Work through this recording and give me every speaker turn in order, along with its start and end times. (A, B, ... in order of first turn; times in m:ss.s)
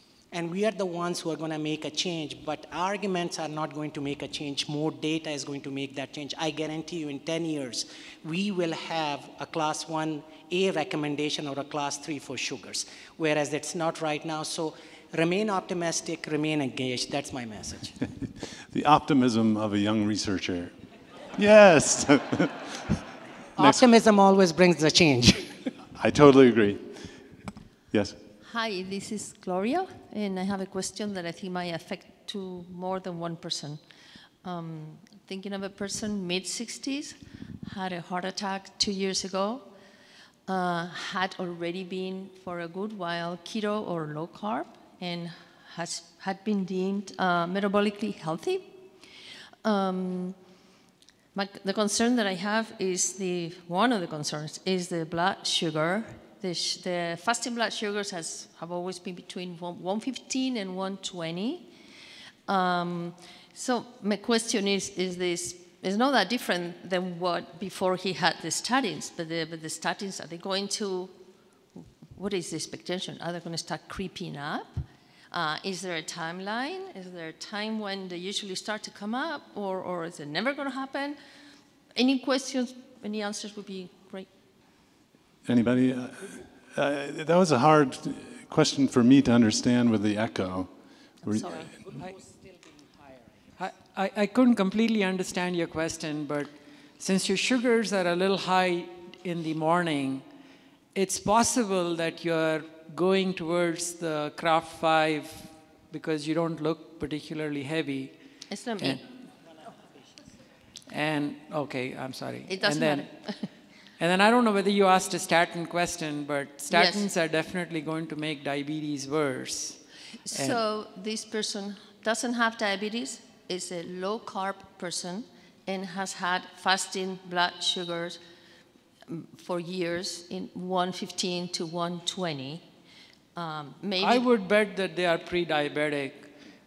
0:00.3-0:17.9 A
0:18.6-0:20.7 B
0:21.4-0:23.0 B
0:23.6-0:25.5 A
0:23.6-0:23.8 B
0:26.0-0:27.1 B
0:27.9-0:28.2 B
0:28.4-0:33.8 C
0:34.4-0:39.7 C
0:40.5-0:48.7 C
0:49.6-0:50.4 C
0:51.3-1:01.7 C
1:02.5-1:11.1 C
1:12.1-1:21.2 C
1:22.0-1:24.3 C
1:25.4-1:30.7 B
1:31.2-1:31.8 B
1:31.2-1:31.7 C
1:33.6-1:40.2 D
1:40.9-1:48.2 D
1:48.5-1:49.0 C
1:48.8-1:49.0 D
1:50.9-1:53.1 D
1:52.5-1:53.5 C
1:54.0-2:00.6 D
1:56.7-1:57.1 C
2:00.2-2:08.2 C
2:09.1-2:12.6 C
2:13.4-2:14.3 C
2:14.0-2:16.3 D